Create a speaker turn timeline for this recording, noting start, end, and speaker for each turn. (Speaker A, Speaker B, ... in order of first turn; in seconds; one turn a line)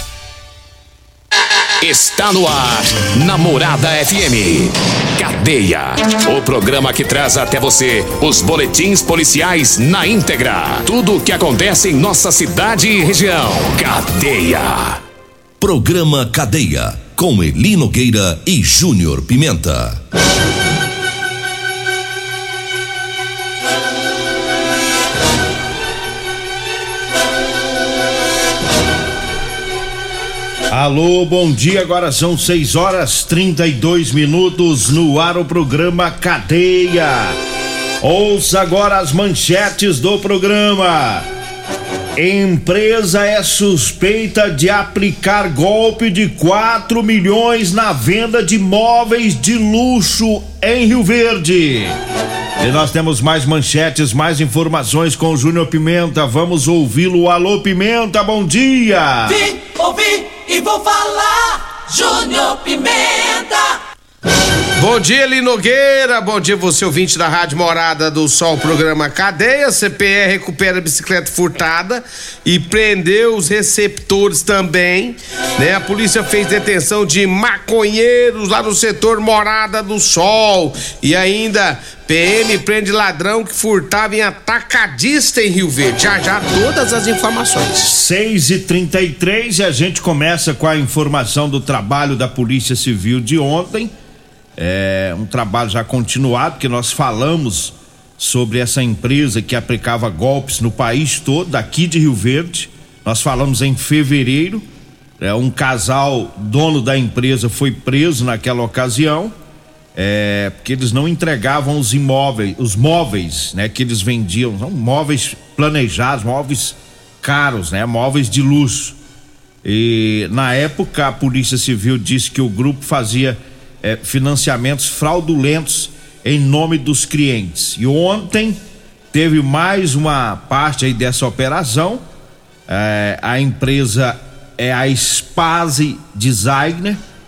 Speaker A: 1.8-15.0
Speaker B: 15.6-20.0
Speaker C: 30.7-37.4
Speaker C: 38.0-41.2
Speaker C: 42.1-52.0
Speaker C: 52.6-59.5
Speaker D: 60.0-61.2
Speaker D: 62.0-63.5
Speaker E: 64.8-87.9
Speaker C: 87.8-93.9
Speaker C: 94.6-104.7
Speaker C: 105.2-109.3
Speaker C: 109.9-119.0
Speaker C: 119.6-128.6
Speaker C: 129.1-132.0
Speaker C: 132.7-137.0